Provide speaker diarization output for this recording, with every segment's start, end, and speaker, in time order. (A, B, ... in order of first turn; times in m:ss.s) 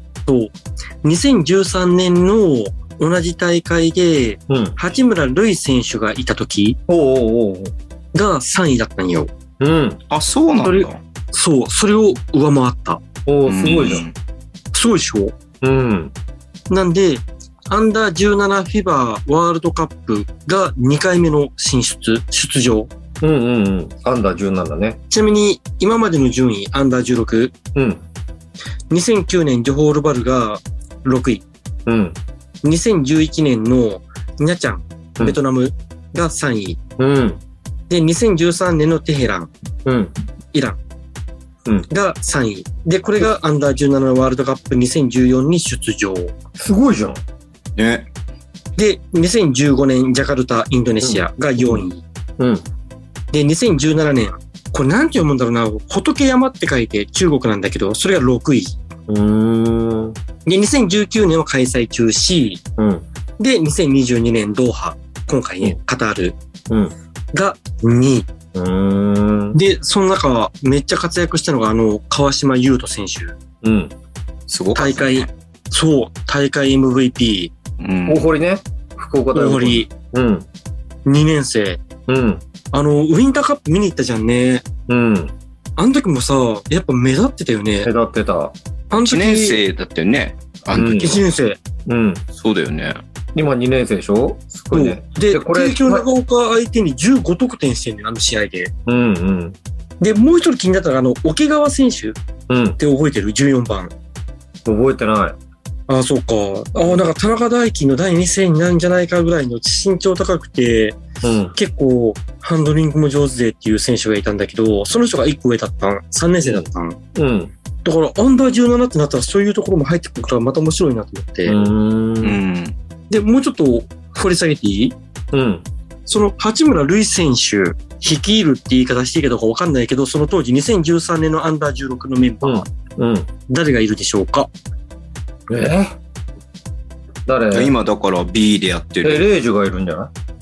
0:00.2-0:06.8 A
0:04.5-0:04.8 B
0:06.9-0:07.7 B
0:08.1-0:09.3 A
0:09.6-0:10.0 B
0:10.1-0:11.0 C
0:10.6-0:13.0 A
0:13.2-0:14.0 B
0:13.5-0:14.1 C
0:14.7-0:15.3 A
0:15.6-0:16.1 B
0:16.7-0:22.9 A
0:23.2-0:25.0 B
0:25.1-0:27.5 A
0:27.7-0:28.0 B
0:28.9-0:31.4 A
0:31.8-0:32.2 B
0:32.6-0:36.8 A
0:37.0-0:37.4 B
0:37.9-0:39.5 A
0:39.8-0:40.1 B
0:40.5-0:40.8 A
0:41.9-0:46.3 A
0:46.6-0:47.2 B
0:47.8-0:48.1 C
0:48.8-0:52.0 A
0:51.0-0:51.8 B
0:52.4-0:52.6 B
0:53.3-0:58.8 A
0:59.1-1:00.2 B
1:00.4-1:02.6 A
1:02.8-1:03.0 B
1:03.4-1:06.4 A
1:06.7-1:06.9 B
1:07.3-1:08.3 A
1:08.5-1:09.6 B
1:09.5-1:13.3 A
1:13.6-1:13.9 B
1:14.5-1:15.3 C
1:14.7-1:17.5 A
1:17.8-1:18.3 C
1:18.1-1:20.5 B
1:19.3-1:19.9 A
1:21.0-1:21.8 A
1:22.1-1:22.4 B
1:22.7-1:24.6 A
1:24.9-1:25.3 B
1:25.8-1:27.9 A
1:27.8-1:28.5 B
1:28.9-1:29.6 A
1:28.9-1:31.1 C
1:30.7-1:31.2 B
1:30.8-1:31.6 A
1:31.9-1:32.2 B
1:32.4-1:33.0 C
1:33.3-1:36.1 B
1:34.7-1:38.7 A
1:38.8-1:39.6 B
1:40.0-1:42.2 A
1:42.5-1:42.8 B
1:42.8-1:43.9 A
1:44.6-1:45.4 B
1:45.9-1:51.0 A
1:46.8-1:47.0 B
1:51.2-1:51.5 B
1:51.5-1:57.0 A
1:56.4-1:57.5 B
1:57.8-2:01.7 A
2:01.4-2:02.4 B
2:02.2-2:02.7 C
2:03.1-2:05.0 A
2:05.3-2:05.6 B
2:06.1-2:12.7 A
2:12.4-2:13.3 B
2:13.5-2:14.5 A
2:15.5-2:15.9 B
2:17.3-2:17.7 B
2:17.5-2:19.2 C
2:19.0-2:20.1 B